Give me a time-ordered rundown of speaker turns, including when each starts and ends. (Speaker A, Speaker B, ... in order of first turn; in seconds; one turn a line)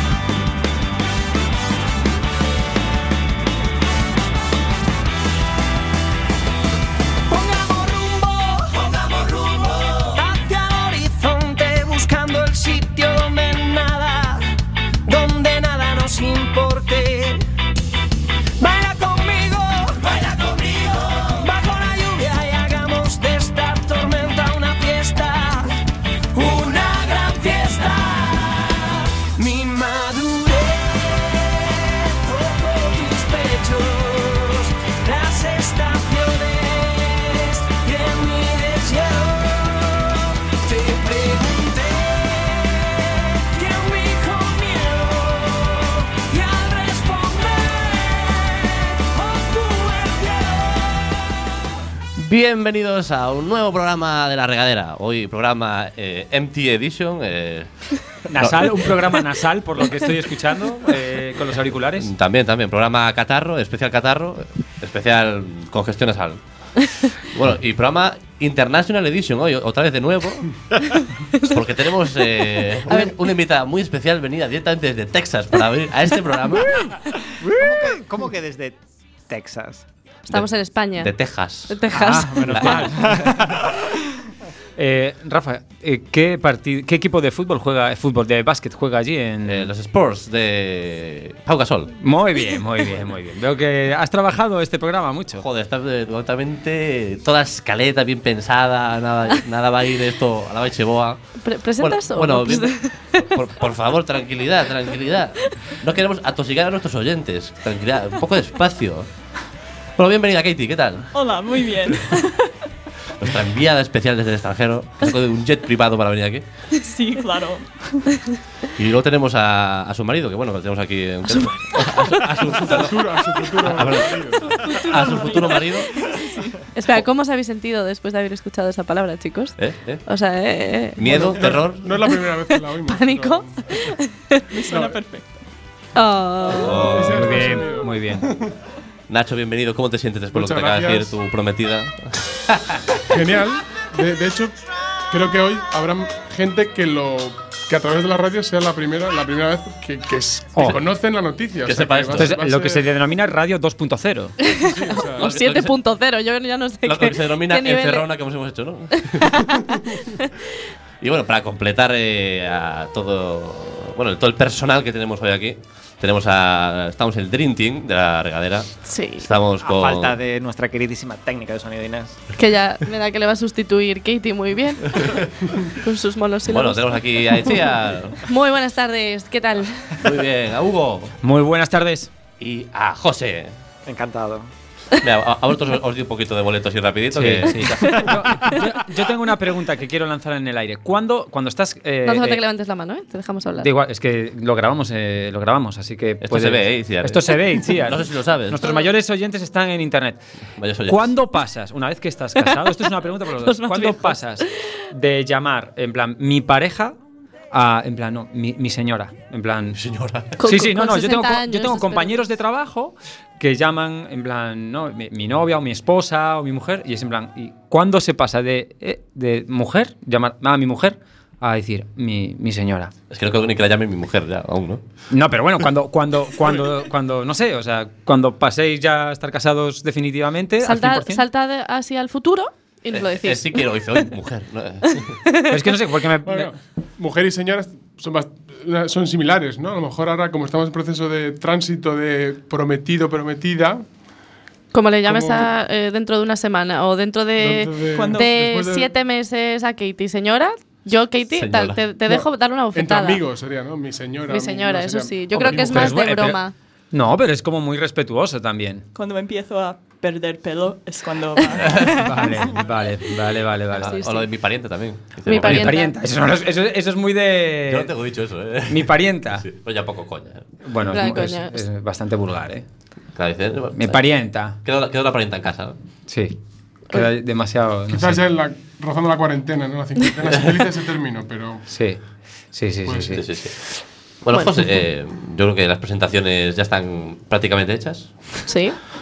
Speaker A: 7.3-14.4
Speaker A: 15.1-17.4
Speaker A: 18.6-25.7
Speaker A: 26.3-51.4
Speaker B: 52.2-57.7
Speaker C: 58.3-62.1
Speaker B: 58.4-59.0
Speaker B: 62.0-66.4
Speaker B: 67.3-70.5
Speaker D: 70.8-71.6
Speaker B: 71.5-76.7
Speaker D: 72.9-73.2
Speaker E: 77.4-78.8
Speaker E: 79.3-79.8
Speaker D: 80.3-81.1
Speaker B: 80.3-81.8
Speaker D: 81.7-82.9
Speaker E: 81.9-83.7
Speaker C: 82.1-83.4
Speaker B: 82.5-82.8
Speaker C: 84.8-89.7
Speaker B: 89.5-91.9
Speaker C: 92.0-95.5
Speaker B: 95.4-101.2
Speaker D: 101.4-103.3
Speaker B: 101.8-109.1
Speaker B: 110.0-111.1
Speaker F: 111.1-112.2
Speaker B: 113.2-116.4
Speaker F: 116.8-118.1
Speaker B: 118.8-125.9
Speaker D: 121.3-121.5
Speaker G: 122.7-124.7
Speaker D: 124.4-126.1
Speaker D: 126.7-131.2
Speaker B: 129.6-130.0
Speaker B: 131.0-131.9
Speaker G: 131.0-133.9
Speaker D: 132.1-134.5
Speaker F: 134.5-135.3
Speaker G: 134.7-135.0
Speaker D: 135.9-137.0
Speaker G: 136.4-138.6
Speaker B: 136.5-137.4
Speaker C: 137.1-138.3
Speaker B: 139.1-142.8
Speaker G: 140.3-141.1
Speaker G: 143.1-144.6
Speaker G: 145.1-152.9
Speaker B: 151.6-152.3
Speaker C: 152.1-154.4
Speaker D: 154.4-158.1
Speaker G: 154.7-155.3
Speaker B: 155.2-155.8
Speaker B: 156.8-159.4
Speaker D: 159.1-160.3
Speaker B: 161.0-170.2
Speaker D: 168.9-169.3
Speaker E: 169.6-172.2
Speaker D: 172.4-175.2
Speaker B: 174.9-175.3
Speaker D: 175.8-177.6
Speaker B: 176.4-178.2
Speaker D: 178.2-179.7
Speaker B: 180.0-181.2
Speaker C: 181.2-182.1
Speaker B: 182.4-183.5
Speaker E: 183.9-184.5
Speaker B: 185.0-188.3
Speaker C: 187.1-192.4
Speaker D: 192.0-193.7
Speaker C: 193.6-200.2
Speaker B: 196.2-198.8
Speaker B: 200.6-201.1
Speaker C: 200.9-207.0
Speaker D: 203.4-204.5
Speaker C: 207.5-209.8
Speaker B: 209.7-210.3
Speaker D: 210.4-212.2
Speaker C: 210.4-222.9
Speaker B: 223.1-224.8
Speaker C: 225.1-231.2
Speaker D: 230.6-234.1
Speaker B: 232.9-235.1
Speaker C: 235.5-236.5
Speaker G: 236.2-243.8
Speaker D: 244.7-253.2
Speaker G: 245.1-245.5
Speaker G: 247.4-249.0
Speaker F: 247.9-248.3
Speaker B: 251.3-251.8
Speaker G: 252.1-256.0
Speaker D: 254.3-256.6
Speaker C: 255.4-256.4
Speaker C: 256.9-258.9
Speaker F: 258.9-261.8
Speaker D: 261.5-262.0
Speaker C: 262.0-264.0
Speaker B: 263.8-265.8
Speaker D: 263.8-264.3
Speaker D: 265.3-265.9
Speaker C: 265.4-267.9
Speaker B: 267.7-270.5
Speaker C: 268.7-269.4
Speaker C: 270.6-272.7
Speaker D: 270.9-271.6
Speaker B: 273.2-274.0
Speaker C: 273.8-274.6
Speaker B: 274.6-275.8
Speaker C: 276.1-276.4
Speaker C: 276.9-278.2
Speaker G: 277.9-281.6
Speaker C: 281.7-283.2
Speaker G: 282.9-283.2
Speaker B: 283.1-283.5
Speaker B: 284.2-288.1
Speaker D: 284.3-284.7
Speaker D: 288.5-288.8